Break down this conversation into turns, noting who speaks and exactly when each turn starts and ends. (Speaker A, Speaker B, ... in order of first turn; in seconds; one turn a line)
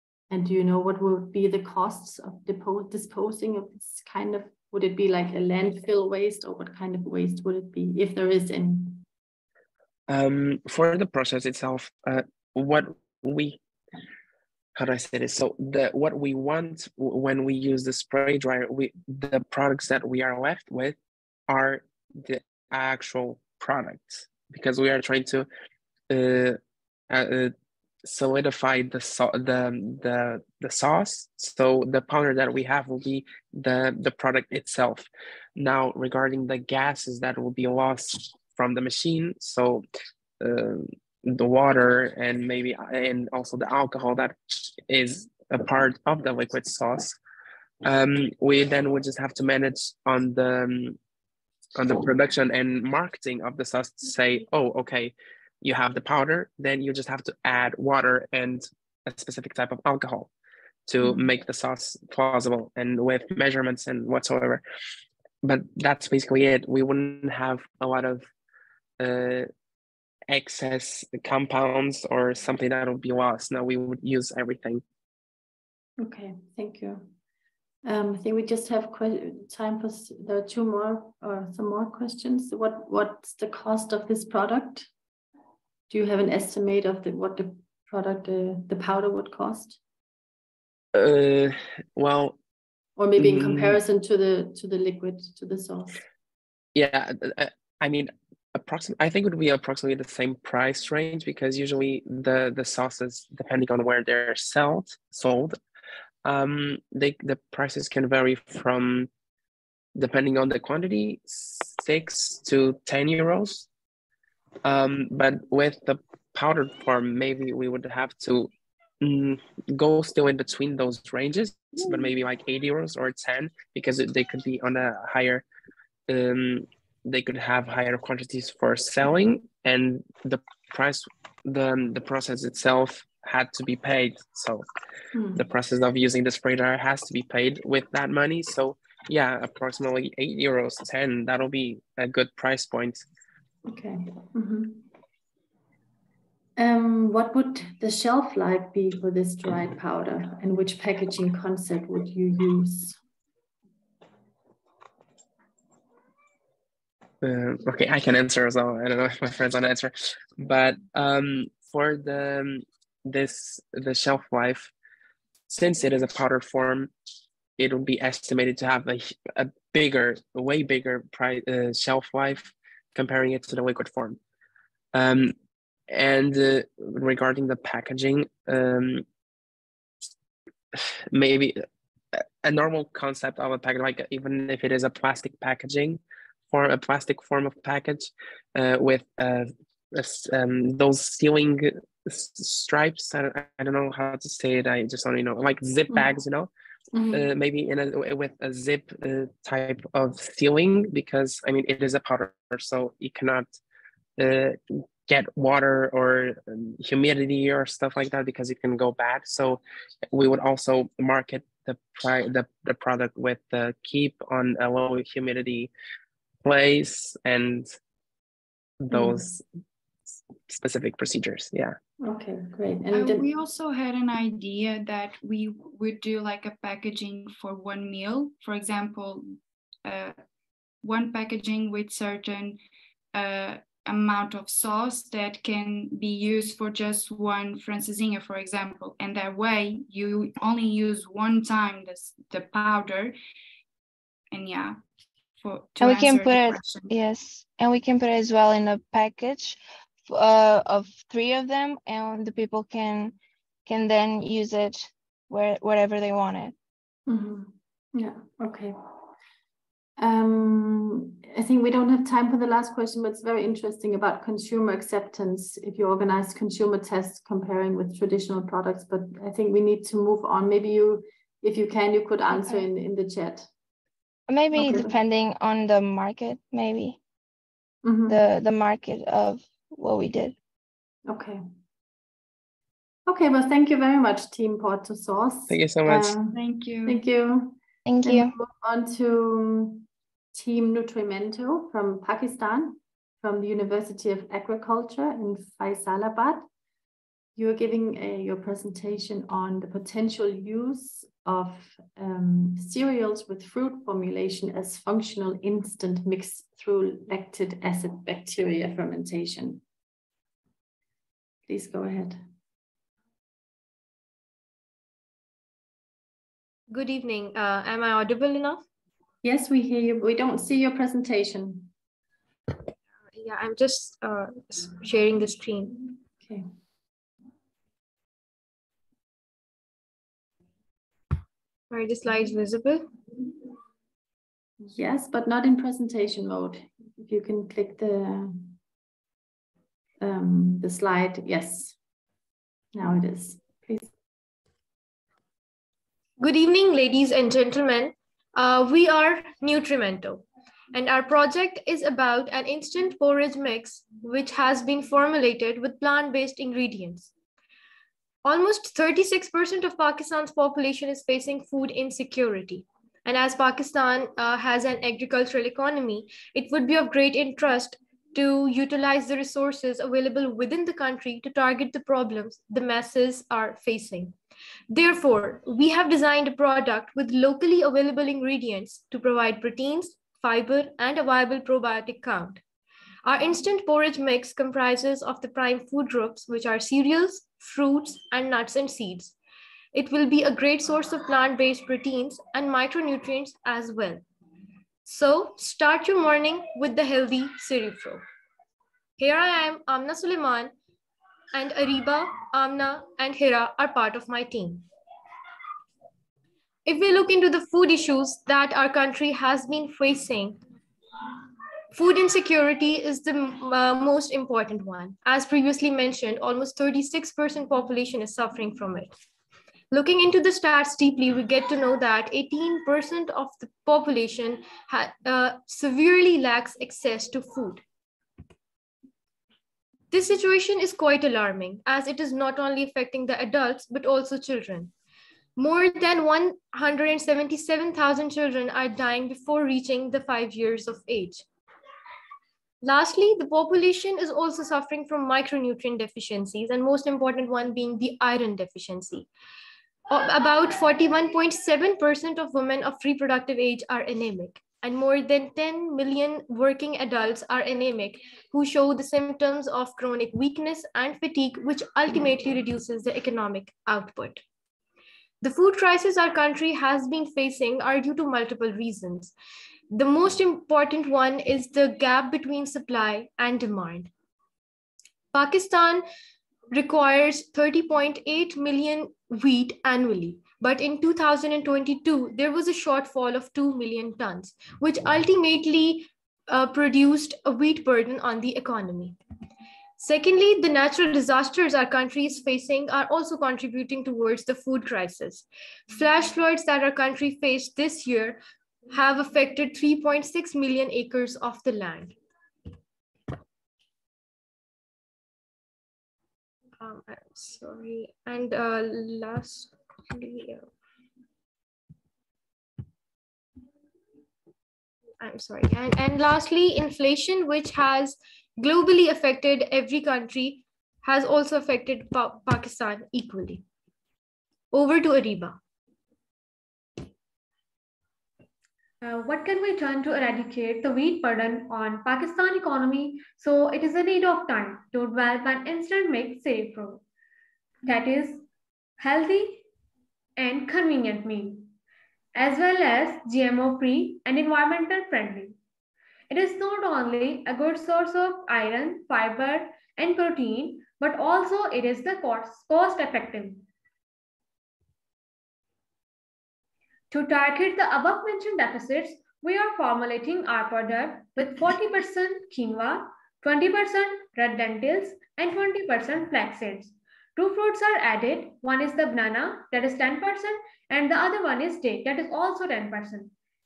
Speaker A: 0.3-9.0
Speaker B: 10.1-13.6
Speaker B: 14.8-20.9
Speaker B: 21.5-25.5
Speaker B: 26.1-26.6
Speaker B: 27.1-27.5
Speaker B: 28.0-39.9
Speaker B: 40.4-47.2
Speaker B: 47.8-51.0
Speaker B: 51.7-60.3
Speaker B: 60.9-64.6
Speaker B: 65.4-68.3
Speaker B: 69.0-69.5
Speaker B: 70.3-74.8
Speaker A: 76.0-77.1
Speaker A: 77.8-84.9
Speaker A: 85.9-89.8
Speaker B: 90.9-92.3
Speaker A: 93.0-96.0
Speaker B: 93.2-93.8
Speaker B: 96.7-105.6
Speaker B: 106.2-109.1
Speaker B: 110.0-113.7
Speaker B: 114.6-118.5
Speaker B: 119.0-125.4
Speaker B: 126.1-134.7
Speaker A: 135.1-135.4
Speaker B: 135.3-143.0
Speaker A: 143.7-144.9
Speaker A: 146.6-153.0
Speaker B: 157.2-164.7
Speaker B: 165.5-166.9
Speaker B: 167.6-174.2
Speaker B: 174.9-175.3
Speaker B: 175.9-179.0
Speaker B: 180.7-181.6
Speaker B: 182.4-186.0
Speaker B: 186.5-196.5
Speaker A: 196.9-197.3
Speaker B: 197.1-203.6
Speaker B: 204.2-209.6
Speaker B: 210.1-215.7
Speaker B: 216.4-217.7
Speaker B: 218.8-219.3
Speaker A: 218.9-219.4
Speaker B: 220.5-221.8
Speaker A: 222.0-223.2
Speaker C: 222.9-229.2
Speaker C: 229.8-230.2
Speaker C: 230.8-232.6
Speaker C: 233.1-243.1
Speaker C: 244.3-244.8
Speaker C: 245.4-246.9
Speaker D: 245.8-253.1
Speaker D: 253.7-256.5
Speaker A: 257.1-258.8
Speaker A: 260.0-273.5
Speaker D: 274.3-277.0
Speaker A: 274.5-274.9
Speaker A: 277.8-278.2
Speaker D: 278.1-280.3
Speaker A: 281.1-281.4
Speaker A: 283.1-296.5
Speaker B: 285.5-286.1
Speaker C: 286.3-287.0
Speaker D: 287.9-288.3
Speaker A: 297.4-309.6
Speaker A: 311.5-312.2
Speaker E: 316.7-318.6
Speaker A: 319.2-321.7
Speaker E: 322.9-325.9
Speaker A: 326.2-326.4
Speaker E: 331.7-332.9
Speaker A: 334.6-338.6
Speaker A: 340.0-341.8
Speaker A: 342.7-343.9
Speaker E: 346.2-357.1
Speaker E: 358.2-374.1
Speaker E: 374.7-382.4
Speaker E: 383.0-389.1
Speaker E: 389.7-394.0
Speaker E: 394.9-398.0
Speaker E: 399.0-400.5
Speaker E: 401.3-404.6
Speaker E: 406.6-410.4
Speaker E: 411.7-418.9
Speaker E: 419.7-427.6
Speaker E: 429.9-434.7
Speaker E: 435.4-441.2
Speaker E: 442.6-449.1
Speaker E: 449.9-464.2
Speaker E: 465.2-469.1
Speaker E: 469.7-473.9
Speaker E: 475.1-475.8
Speaker E: 476.5-489.0
Speaker E: 489.8-501.9
Speaker E: 506.6-510.4
Speaker E: 515.0-523.4
Speaker E: 524.5-525.4
Speaker F: 528.8-536.8
Speaker F: 537.6-538.2
Speaker F: 538.8-539.4
Speaker F: 540.2-541.5
Speaker F: 542.1-545.4
Speaker F: 546.1-553.4
Speaker F: 556.9-573.1